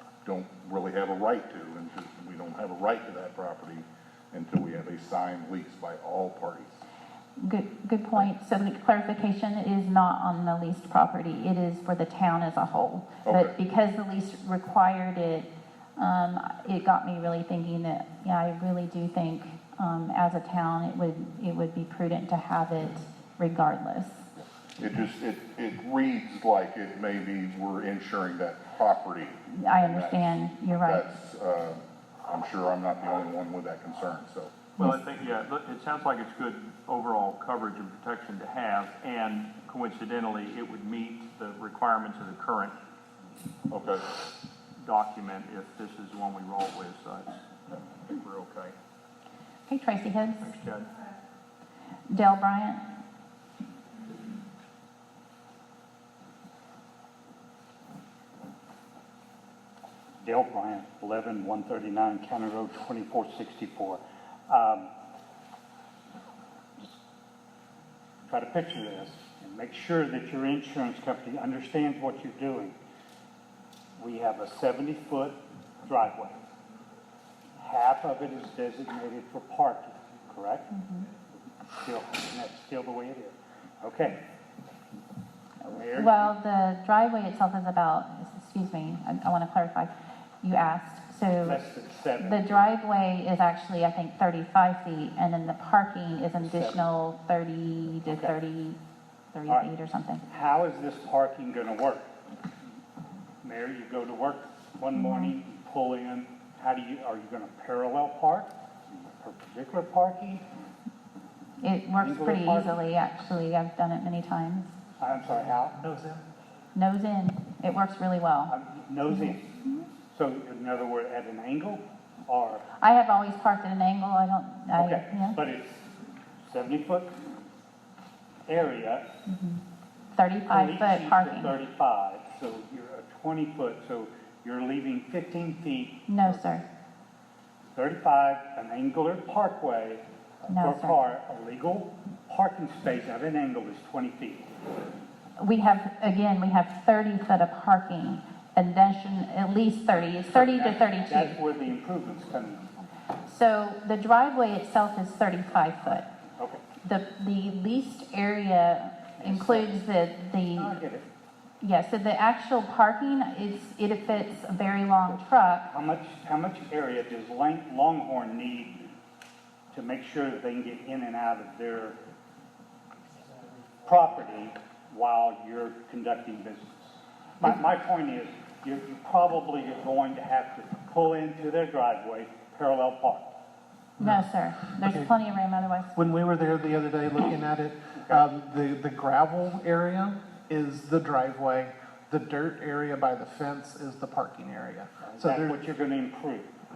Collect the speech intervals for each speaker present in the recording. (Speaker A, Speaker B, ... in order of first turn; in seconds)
Speaker A: 0.2-6.8, 13.2-13.5, 24.8-34.5, 43.7-44.0
Speaker B: 7.4-24.2, 29.5-31.1, 49.7-50.5, 52.1-52.8, 80.7-81.1, 85.6-91.6, 92.2-98.8, 99.3-100.2, 104.9-105.3, 111.6-114.8, 116.7-118.5, 119.1-119.9, 122.7-125.4, 129.2-129.6, 130.2-131.5, 136.1-136.7, 140.5-141.0, 145.4-151.4, 153.2-156.1, 156.8-160.8, 161.6-165.7, 184.0-186.1
Speaker C: 34.8-42.8, 44.8-47.4, 48.0-48.7, 50.4-50.9
Speaker D: 60.2-64.9, 68.3-72.7, 74.0-76.4, 77.6-80.7, 81.8-84.2, 85.7-86.4, 91.4-92.7, 96.4-96.8, 98.0-98.3, 100.3-102.1, 103.4-110.4, 112.0-112.8, 115.0-115.8, 118.5-119.5, 120.1-122.7, 124.7-125.9, 126.4-127.1, 128.5-129.1, 130.4-136.6, 137.7-144.5, 150.2-152.9, 156.4-156.7, 159.2-159.8, 160.5-161.1, 165.7-168.9, 169.7-172.0, 173.8-183.3, 187.9-188.2, 195.0-196.5
Speaker E: 115.7-116.2, 184.8-185.1, 185.9-195.6